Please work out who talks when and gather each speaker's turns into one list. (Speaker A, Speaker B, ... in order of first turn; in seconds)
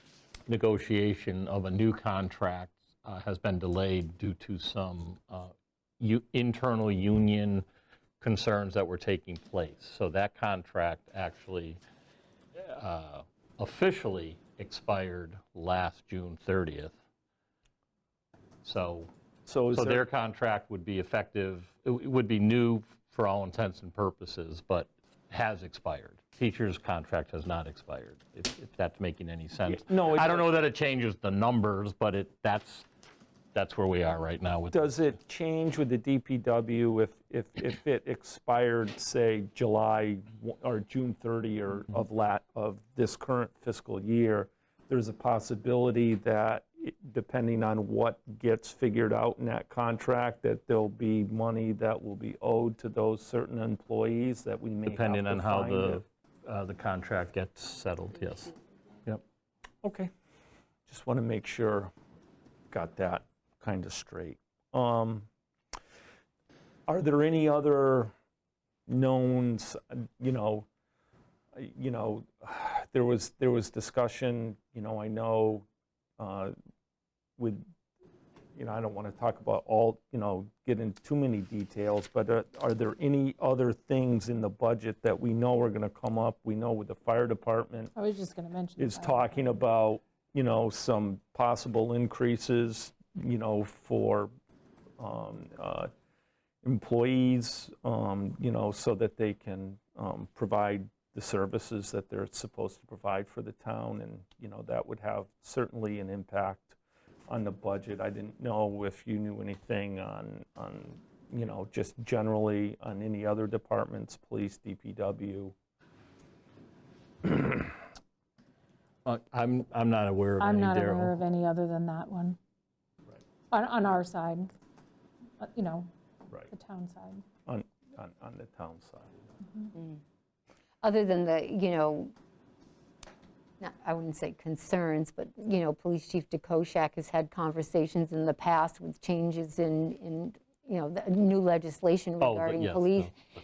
Speaker A: 0.5-7.6, 8.2-11.8, 12.6-16.9, 18.6-19.1, 19.7-32.9, 33.5-35.0, 54.9-59.2, 119.0-121.2, 142.2-143.2
Speaker B: 19.4-20.0, 29.6-30.5, 34.7-56.0, 59.8-60.1, 60.9-61.9, 62.7-65.3, 66.9-68.1, 68.9-70.7, 71.5-75.6, 76.2-76.5, 77.4-77.6, 78.5-87.9, 88.8-94.3, 95.0-95.9, 96.6-106.8, 107.3-115.5, 117.2-117.7, 127.5-129.1
Speaker C: 87.9-89.6, 120.4-122.4, 123.5-124.5, 125.4-125.9, 126.5-127.2
Speaker D: 129.7-130.0, 130.8-132.1, 133.6-143.1